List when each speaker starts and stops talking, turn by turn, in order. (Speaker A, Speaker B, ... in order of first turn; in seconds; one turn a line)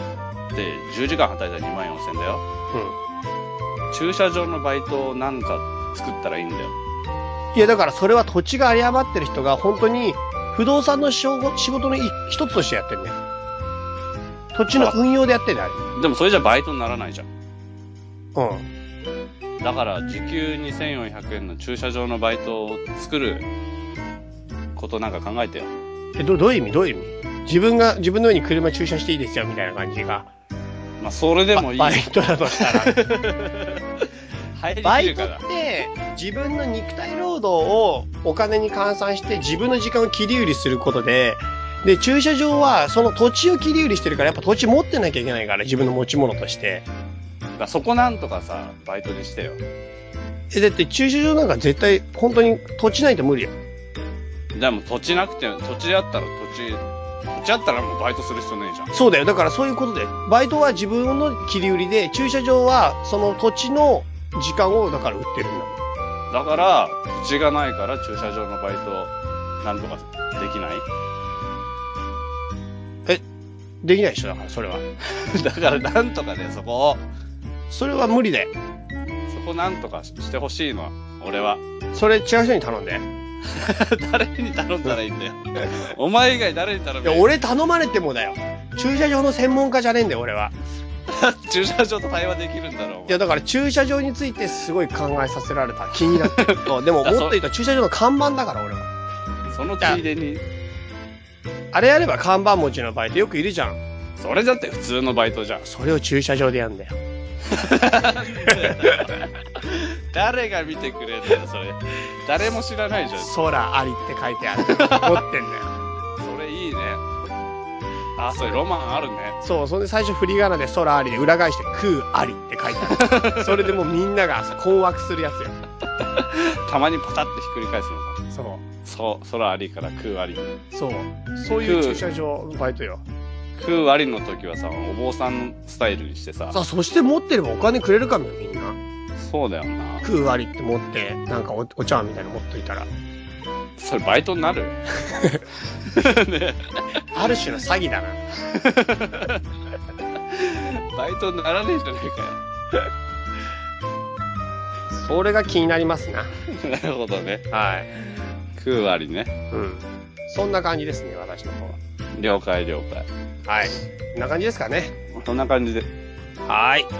Speaker A: 0.5-2.4
Speaker A: 3.9-6.8
Speaker B: 7.5-13.2
Speaker B: 14.5-15.8
Speaker A: 15.9-17.3
Speaker B: 18.4-18.7
Speaker A: 19.6-23.5
Speaker A: 24.8-25.7
Speaker B: 26.2-30.3
Speaker A: 31.0-35.4
Speaker B: 31.6-33.0
Speaker B: 34.8-46.9
Speaker A: 47.6-49.6
Speaker B: 50.5-53.5
Speaker A: 54.5-58.9
Speaker B: 58.9-65.8
Speaker A: 66.3-70.9
Speaker B: 73.8-74.8
Speaker A: 75.0-77.0
Speaker B: 77.7-78.5
Speaker A: 79.3-81.6
Speaker B: 81.9-83.1
Speaker A: 83.5-87.3
Speaker B: 87.0-90.5
Speaker A: 91.1-93.2
Speaker B: 93.1-98.9
Speaker A: 96.1-97.4
Speaker A: 99.5-100.4
Speaker B: 101.7-103.8
Speaker A: 104.2-105.7
Speaker B: 105.6-107.0
Speaker A: 107.5-113.4
Speaker B: 108.5-108.9
Speaker B: 113.2-115.7
Speaker A: 114.6-115.2
Speaker A: 116.2-117.0
Speaker A: 118.2-119.4
Speaker B: 118.2-118.6
Speaker B: 119.4-125.6
Speaker A: 122.9-123.8
Speaker A: 126.0-128.2
Speaker B: 128.3-128.6
Speaker A: 128.8-130.6
Speaker B: 130.7-133.0
Speaker A: 131.5-132.1
Speaker A: 133.6-136.6
Speaker B: 136.5-138.8
Speaker A: 139.2-140.1
Speaker B: 140.0-142.9
Speaker A: 143.8-144.8
Speaker B: 145.1-145.4
Speaker A: 145.8-146.8
Speaker B: 147.1-148.2
Speaker A: 148.3-149.4
Speaker A: 150.2-152.4
Speaker B: 154.9-156.3
Speaker A: 156.5-157.5
Speaker B: 157.5-157.9
Speaker A: 158.5-159.3
Speaker B: 159.5-161.8
Speaker A: 162.1-163.1
Speaker B: 163.5-164.9
Speaker A: 165.1-165.9
Speaker B: 166.5-166.9